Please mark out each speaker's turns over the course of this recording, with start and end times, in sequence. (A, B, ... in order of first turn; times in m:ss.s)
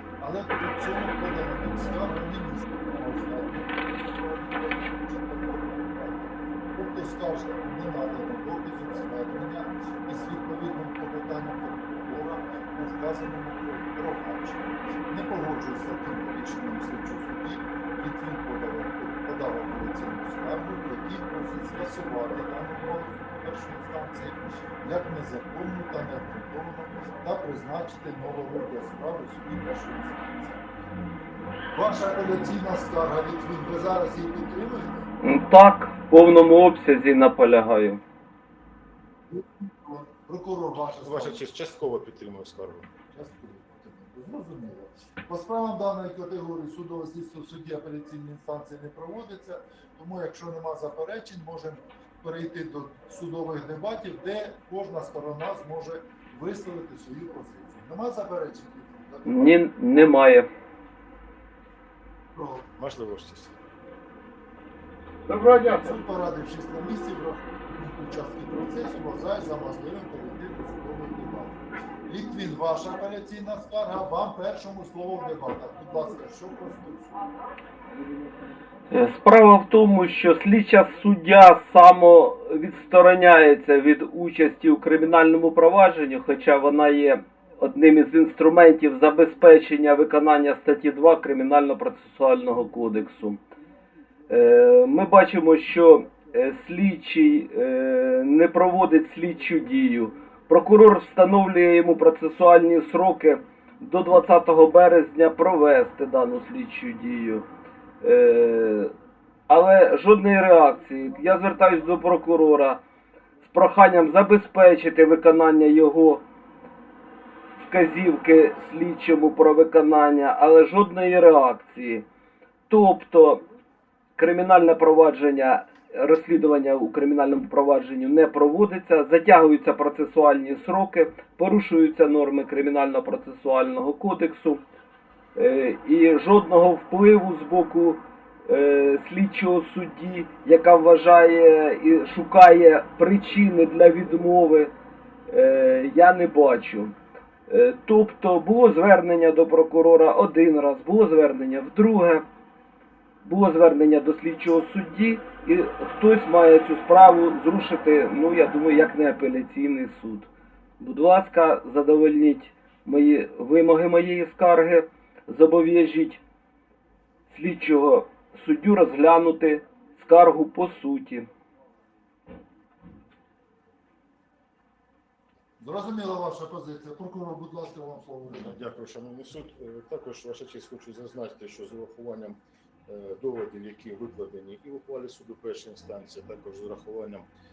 0:00.2-0:30.6 A
0:31.7-0:35.1 A
0:35.2-0:38.0 B
0:39.3-0:41.4 A
0:41.0-0:42.9 C
0:43.1-0:59.6 A
0:59.2-1:00.5 B
1:02.3-1:02.7 A
1:02.8-1:03.6 C
1:05.3-1:05.9 B
1:05.7-1:17.2 A
1:18.9-1:33.4 B
1:34.3-1:47.5 B
1:48.0-1:48.9 B
1:49.5-1:52.8 B
1:53.4-1:56.2 B
1:57.6-2:02.0 B
2:02.7-2:03.4 B
2:04.2-2:14.6 B
2:15.4-2:24.7 B
2:25.3-2:26.9 B
2:27.5-2:32.2 B
2:33.2-2:40.3 B
2:40.8-2:46.2 B
2:47.3-2:51.3 B
2:55.6-2:58.6 A
2:58.3-3:07.2 C